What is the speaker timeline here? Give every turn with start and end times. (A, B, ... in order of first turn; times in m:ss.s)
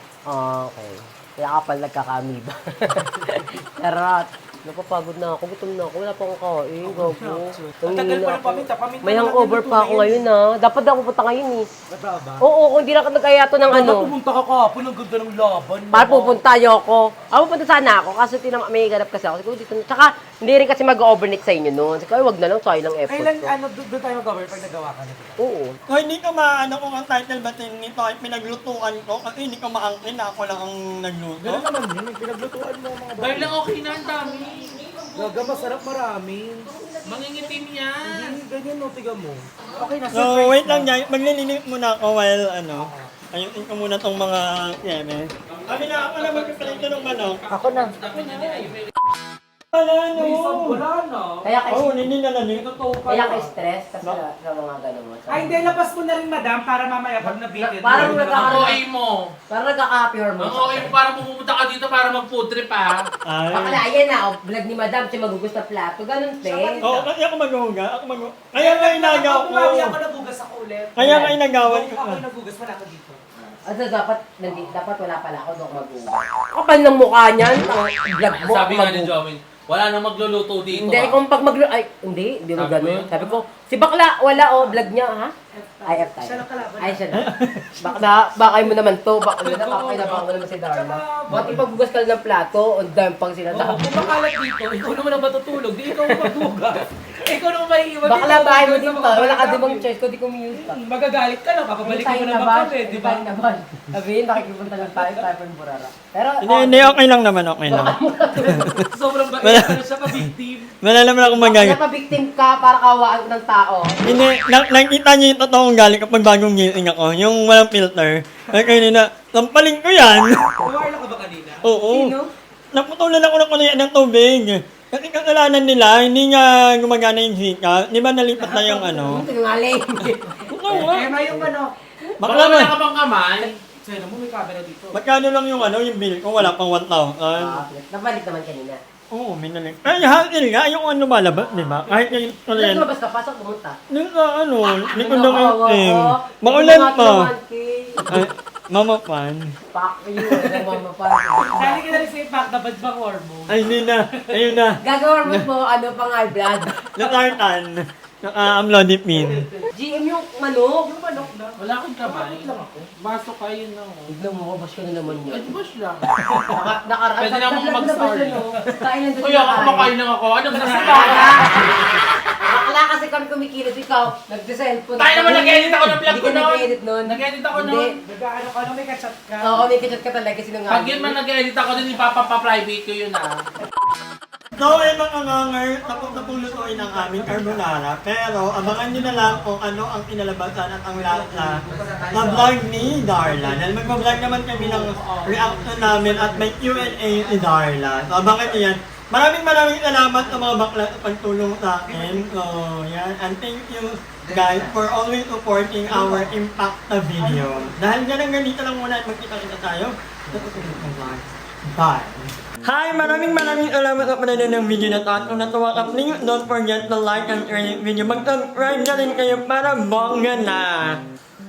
0:00.3-0:11.6 A
0:06.8-0:10.2 B
0:11.9-0:12.4 B
0:12.4-0:14.1 A
0:13.7-0:16.4 B
0:15.9-0:23.5 A
0:23.1-0:25.4 B
0:25.4-0:25.8 A
0:25.9-0:31.7 C
0:31.4-0:33.5 B
0:33.2-0:34.7 D
0:34.0-0:35.8 A
0:35.2-0:36.7 B
0:36.6-0:37.6 A
0:37.0-0:38.4 D
0:38.0-0:40.9 B
0:40.1-0:47.4 C
0:42.8-0:43.1 B
0:45.5-0:48.9 D
0:47.5-0:48.6 B
0:49.7-0:50.8 C
0:50.2-0:51.5 B
0:51.4-0:52.0 A
0:51.7-0:52.6 C
0:52.5-0:53.6 B
0:53.1-0:55.7 A
0:55.3-0:58.7 B
0:57.2-0:58.8 A
0:58.0-0:59.3 D
0:59.5-1:00.9 A
1:00.4-1:03.0 D
1:03.2-1:03.8 C
1:03.5-1:06.8 A
1:06.4-1:07.1 B
1:06.8-1:10.0 C
1:08.6-1:13.2 B
1:11.0-1:12.2 C
1:11.0-1:11.3 A
1:13.6-1:19.1 A
1:14.5-1:14.8 B
1:18.3-1:21.2 D
1:20.7-1:25.3 A
1:22.6-1:23.4 D
1:24.3-1:24.8 B
1:25.5-1:27.1 B
1:25.8-1:27.2 A
1:27.1-1:28.0 C
1:27.8-1:33.9 A
1:29.4-1:31.6 B
1:31.3-1:31.6 C
1:33.5-1:39.8 B
1:38.0-1:40.8 A
1:40.5-1:43.2 B
1:41.8-1:47.0 A
1:44.5-1:45.2 B
1:46.4-1:48.8 C
1:47.7-1:48.8 A
1:48.5-1:50.7 B
1:49.4-1:50.3 C
1:50.8-1:51.8 C
1:51.4-1:54.0 A
1:54.0-2:00.3 C
2:00.6-2:01.7 B
2:01.6-2:02.2 C
2:01.9-2:02.3 A
2:02.7-2:09.2 C
2:08.4-2:09.2 B
2:09.0-2:10.4 A
2:10.5-2:11.1 C
2:10.7-2:11.7 B
2:11.2-2:11.5 A
2:12.2-2:12.7 C
2:12.2-2:13.5 D
2:13.6-2:14.9 B
2:14.9-2:17.6 C
2:17.4-2:18.8 A
2:19.1-2:22.9 C
2:21.4-2:23.8 A
2:23.9-2:27.3 C
2:24.6-2:28.2 A
2:28.1-2:29.5 C
2:29.7-2:32.0 A
2:31.5-2:33.6 B
2:33.5-2:35.4 C
2:34.1-2:34.4 B
2:34.8-2:36.8 A
2:36.8-2:39.4 C
2:39.2-2:39.6 B
2:39.7-2:40.9 A
2:40.8-2:42.9 B
2:41.6-2:44.1 D
2:44.1-2:45.5 A
2:45.3-2:46.5 D
2:46.5-2:49.9 A
2:47.2-2:48.5 D
2:49.2-2:51.5 D
2:50.5-2:51.6 B
2:50.8-2:57.9 A
2:55.0-2:58.0 D
2:58.0-2:59.7 B
2:59.4-3:01.2 A
3:00.7-3:03.3 D
3:04.6-3:41.0 C
3:05.8-3:07.8 B
3:08.8-3:09.4 B
3:10.9-3:14.4 B
3:14.4-3:15.9 D
3:15.0-3:17.6 B
3:20.2-3:20.5 B
3:21.9-3:22.3 B
3:24.3-3:24.7 B
3:25.9-3:26.4 B
3:27.2-3:27.7 B